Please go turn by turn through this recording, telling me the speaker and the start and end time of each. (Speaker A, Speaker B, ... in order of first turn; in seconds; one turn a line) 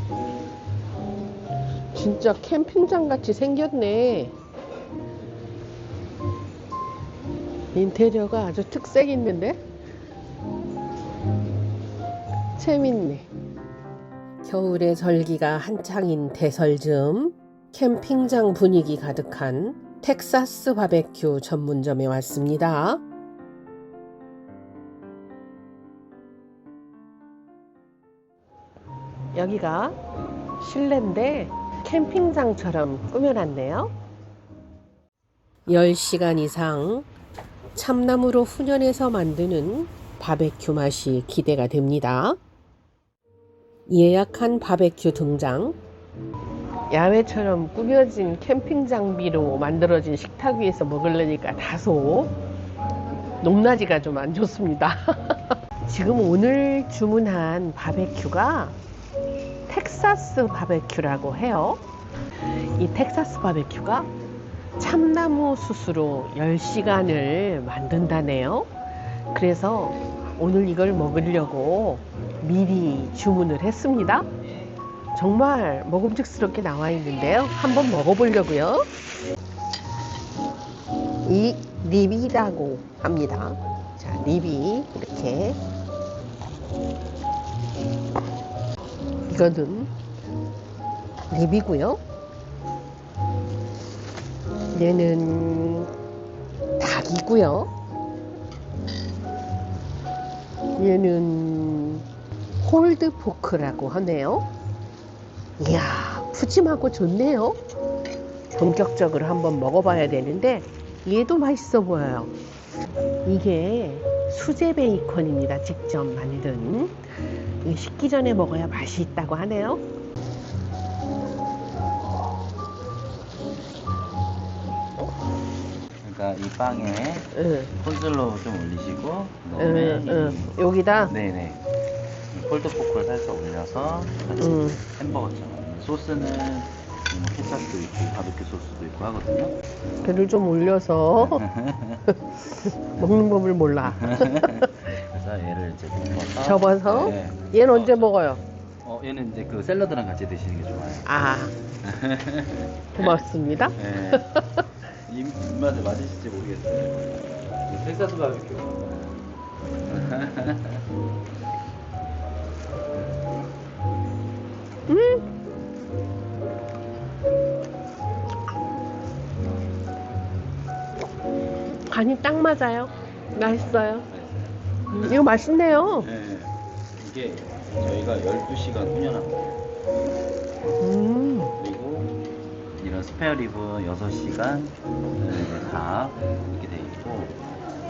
Speaker A: 1.9-4.3
Speaker A: 7.7-9.6
Speaker A: 12.6-13.3
Speaker A: 14.4-23.0
Speaker A: 29.4-30.0
Speaker A: 30.6-33.9
Speaker A: 35.7-37.1
Speaker A: 37.8-42.4
Speaker A: 43.9-45.8
Speaker A: 46.9-52.4
Speaker A: 53.4-58.8
Speaker A: 59.7-61.8
Speaker A: 62.8-64.1
Speaker A: 64.8-68.7
Speaker A: 69.3-74.3
Speaker A: 75.2-78.8
Speaker A: 81.2-85.6
Speaker A: 89.3-89.9
Speaker A: 91.3-92.0
Speaker A: 94.7-95.9
Speaker A: 96.8-97.7
Speaker A: 100.8-102.0
Speaker A: 102.6-104.5
Speaker A: 105.6-107.6
Speaker A: 108.5-112.3
Speaker A: 113.2-119.8
Speaker B: 126.0-131.7
Speaker A: 127.3-127.7
Speaker A: 129.6-131.1
Speaker B: 132.3-139.5
Speaker A: 134.4-134.8
Speaker A: 140.0-141.4
Speaker B: 141.2-142.1
Speaker A: 142.1-144.7
Speaker B: 143.8-148.1
Speaker A: 146.4-148.4
Speaker B: 148.8-151.2
Speaker A: 151.1-151.6
Speaker B: 151.8-153.2
Speaker A: 153.0-154.6
Speaker B: 153.8-154.3
Speaker B: 155.1-159.2
Speaker B: 159.8-160.8
Speaker A: 164.9-165.2
Speaker A: 171.9-174.1
Speaker B: 174.1-175.2
Speaker A: 174.9-176.1
Speaker B: 176.0-179.7
Speaker A: 180.8-181.5
Speaker B: 181.6-182.2
Speaker B: 182.8-187.4